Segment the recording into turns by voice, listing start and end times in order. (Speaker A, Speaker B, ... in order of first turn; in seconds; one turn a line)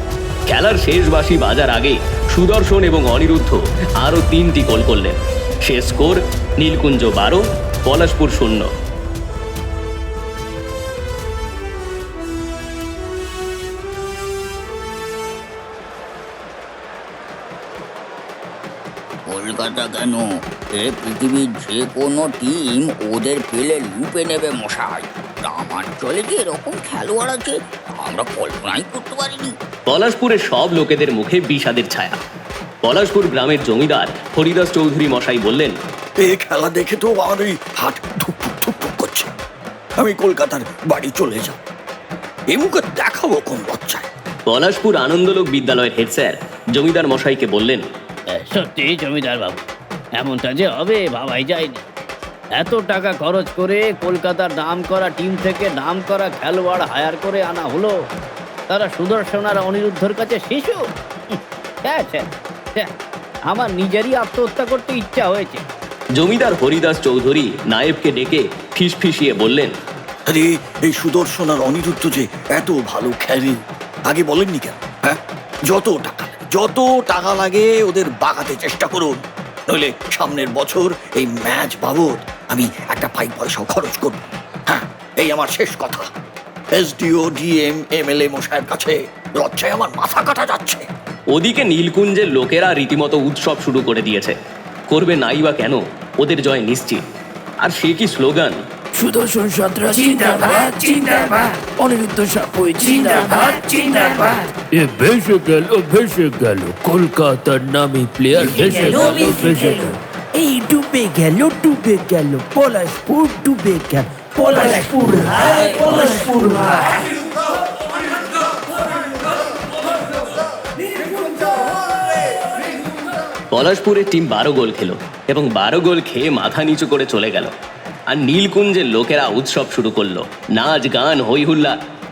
Speaker A: 0.5-8.7
Speaker B: 19.3-29.6
Speaker A: 29.9-32.2
Speaker A: 32.8-35.8
Speaker C: 36.2-39.3
Speaker C: 40.0-41.6
Speaker C: 42.5-44.1
Speaker A: 44.5-47.9
Speaker D: 48.3-49.6
Speaker D: 50.2-51.9
Speaker D: 52.5-58.0
Speaker D: 58.7-62.9
Speaker D: 63.5-65.7
Speaker A: 66.2-69.7
Speaker C: 70.3-86.1
Speaker C: 86.8-90.9
Speaker A: 91.3-94.4
Speaker A: 94.9-97.0
Speaker A: 97.6-98.6
Speaker E: 99.0-116.9
Speaker A: 123.5-127.5
Speaker A: 128.1-131.8